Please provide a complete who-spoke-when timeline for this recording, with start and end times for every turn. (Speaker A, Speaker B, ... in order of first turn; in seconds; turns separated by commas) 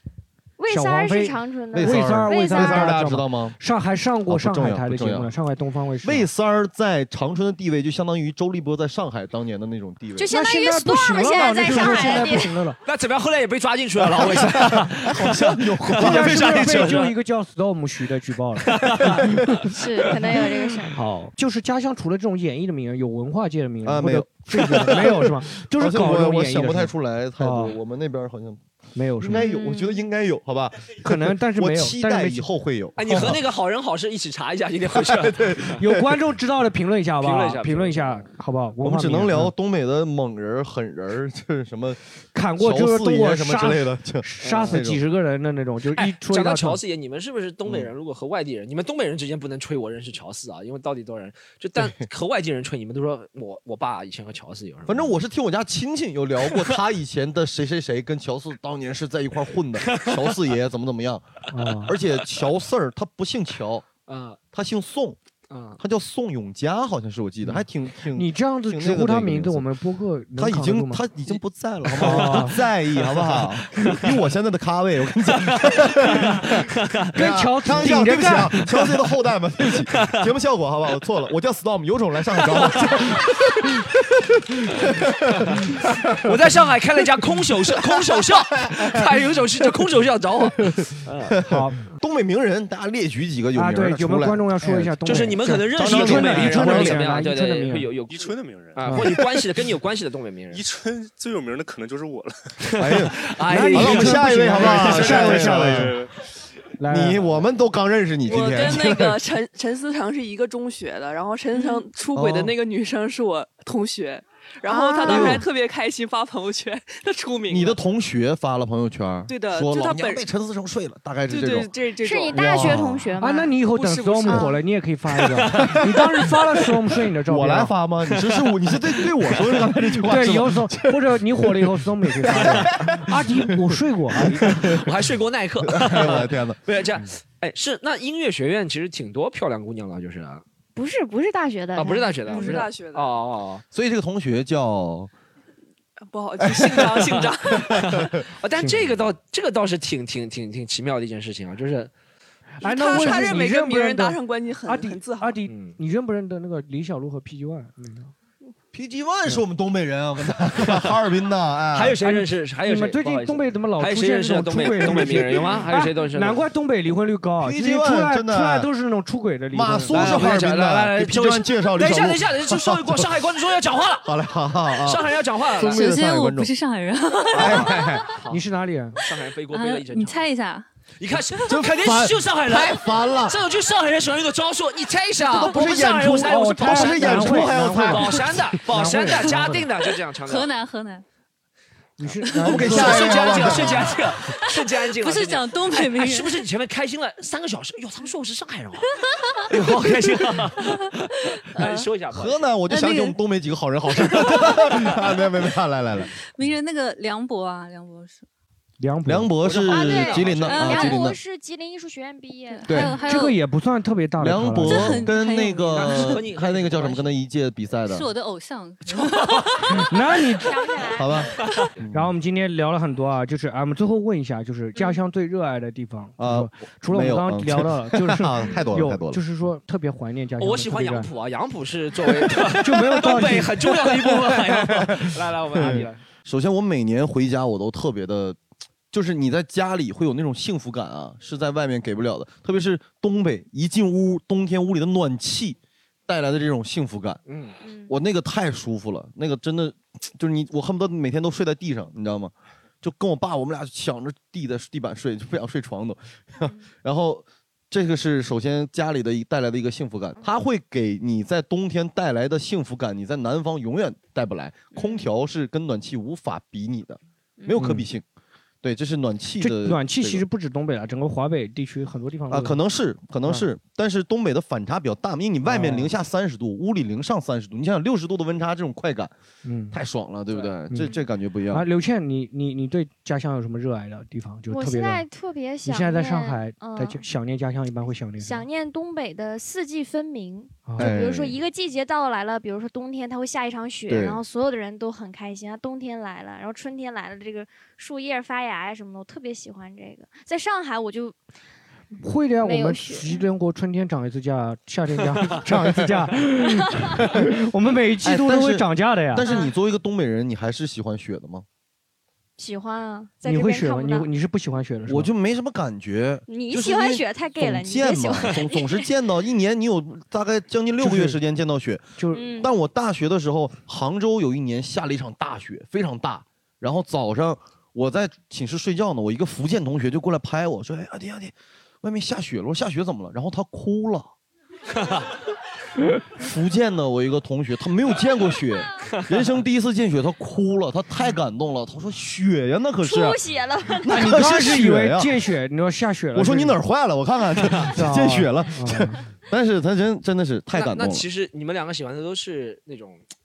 Speaker A: 0.6-2.9, Speaker B: 0.7-6.3, Speaker C: 1.7-3.6, Speaker C: 4.3-5.3, Speaker C: 6.0-10.3, Speaker A: 10.2-12.6, Speaker B: 10.3-12.8, Speaker C: 11.7-12.3, Speaker D: 12.8-17.1, Speaker C: 14.0-17.1, Speaker B: 16.0-19.5, Speaker D: 18.6-19.1, Speaker C: 19.0-19.3, Speaker A: 19.7-21.0, Speaker D: 19.7-20.5, Speaker B: 20.9-27.8, Speaker C: 23.8-28.6, Speaker B: 28.9-29.5, Speaker C: 29.2-33.4, Speaker A: 29.3-30.1, Speaker B: 31.0-32.5, Speaker D: 33.0-35.8, Speaker C: 34.9-36.1, Speaker B: 35.8-39.5, Speaker D: 37.2-38.3, Speaker C: 38.8-42.0, Speaker B: 42.3-46.8, Speaker C: 42.6-45.0, Speaker D: 44.4-44.8, Speaker D: 46.0-55.1, Speaker C: 54.9-63.9, Speaker D: 59.9-60.4, Speaker B: 61.5-61.9, Speaker D: 64.1-64.4, Speaker C: 64.5-65.2, Speaker D: 65.5-65.8, Speaker C: 65.8-69.7, Speaker B: 68.1-71.0, Speaker C: 70.4-86.4, Speaker D: 71.9-74.1, Speaker B: 72.0-72.5, Speaker D: 75.3-77.0, Speaker B: 77.1-78.6, Speaker D: 79.9-80.3, Speaker D: 82.4-83.3, Speaker D: 86.2-91.4, Speaker C: 87.7-89.1, Speaker C: 90.6-95.0, Speaker B: 91.5-91.8, Speaker B: 93.5-97.9, Speaker D: 95.1-100.6, Speaker C: 95.7-97.1, Speaker E: 98.1-99.1, Speaker E: 100.5-102.4, Speaker D: 102.7-104.7, Speaker C: 102.8-106.0, Speaker B: 103.5-106.0, Speaker E: 104.4-106.1, Speaker B: 106.8-107.5, Speaker C: 106.9-109.2, Speaker F: 108.3-117.8, Speaker A: 111.5-111.8, Speaker C: 112.1-112.5, Speaker A: 114.7-115.4, Speaker C: 115.1-115.4, Speaker C: 117.5-121.7, Speaker F: 119.3-120.2, Speaker F: 121.3-122.9, Speaker A: 122.0-123.6, Speaker C: 122.3-123.1, Speaker B: 123.2-127.7, Speaker F: 123.6-124.5, Speaker A: 124.2-124.5, Speaker C: 125.6-126.0, Speaker C: 127.3-134.9, Speaker B: 130.0-134.7, Speaker D: 134.5-140.4, Speaker C: 135.6-136.6, Speaker A: 140.8-142.7, Speaker D: 141.8-143.6, Speaker F: 142.3-143.2, Speaker C: 143.7-145.1, Speaker F: 146.1-147.8, Speaker C: 146.4-148.2, Speaker D: 146.7-151.9, Speaker F: 152.6-155.4, Speaker B: 152.6-158.1, Speaker D: 153.0-153.3, Speaker D: 155.5-155.8, Speaker C: 158.7-162.0, Speaker D: 161.7-166.4, Speaker B: 162.0-170.3, Speaker C: 164.9-165.3, Speaker C: 167.4-168.7, Speaker C: 169.5-173.1, Speaker D: 169.9-174.1, Speaker C: 174.0-176.5, Speaker D: 174.8-175.8, Speaker G: 175.6-178.1, Speaker C: 177.3-178.1, Speaker D: 178.1-178.4, Speaker B: 178.3-179.0, Speaker D: 179.0-180.2, Speaker G: 179.1-180.7, Speaker D: 181.0-190.5, Speaker C: 181.4-183.4, Speaker C: 185.2-188.6, Speaker B: 185.9-189.7, Speaker G: 189.9-191.0, Speaker B: 192.0-193.3, Speaker D: 192.4-202.4, Speaker C: 192.4-194.0, Speaker G: 194.3-196.4, Speaker G: 201.6-201.9, Speaker C: 202.1-206.1, Speaker G: 202.7-203.2, Speaker G: 203.9-205.0, Speaker G: 206.3-208.2, Speaker B: 208.8-209.4, Speaker C: 209.1-211.2, Speaker D: 209.4-210.7, Speaker A: 209.6-212.9, Speaker G: 210.5-211.0, Speaker G: 212.5-213.4, Speaker C: 212.7-213.0, Speaker B: 213.1-215.1, Speaker C: 214.2-218.1, Speaker G: 214.7-216.2, Speaker D: 215.7-217.1, Speaker G: 217.9-219.5, Speaker D: 219.0-219.5, Speaker B: 219.8-220.6, Speaker A: 220.4-221.3, Speaker C: 220.9-222.1, Speaker B: 221.9-231.1, Speaker C: 226.2-229.2, Speaker D: 230.4-236.0, Speaker B: 232.5-233.7, Speaker C: 233.9-238.4, Speaker C: 238.9-247.2, Speaker D: 247.3-247.6, Speaker A: 247.6-247.9, Speaker C: 247.9-268.1, Speaker A: 264.7-265.0, Speaker B: 267.6-267.9, Speaker C: 268.6-270.2, Speaker B: 269.4-272.6, Speaker C: 272.3-279.1, Speaker B: 275.5-275.9, Speaker B: 279.4-279.8, Speaker C: 279.7-281.6, Speaker B: 280.7-280.9, Speaker B: 281.5-285.1, Speaker A: 284.5-287.0, Speaker B: 285.6-288.5, Speaker A: 288.2-301.2, Speaker B: 290.7-291.0, Speaker C: 290.8-291.4, Speaker C: 293.9-294.2, Speaker B: 302.0-309.3, Speaker A: 302.4-303.2, Speaker C: 307.0-307.3, Speaker C: 308.0-311.5, Speaker A: 309.2-309.5, Speaker A: 312.4-314.1, Speaker B: 313.2-315.1, Speaker C: 314.9-321.8, Speaker A: 316.3-318.9, Speaker B: 320.8-321.2, Speaker B: 322.0-322.3, Speaker A: 322.1-322.5, Speaker C: 322.4-334.1, Speaker D: 334.8-335.1, Speaker C: 336.2-343.2, Speaker A: 342.8-344.2, Speaker C: 343.8-345.1, Speaker B: 343.9-346.6, Speaker C: 346.1-351.1, Speaker B: 347.8-349.0, Speaker D: 350.5-353.0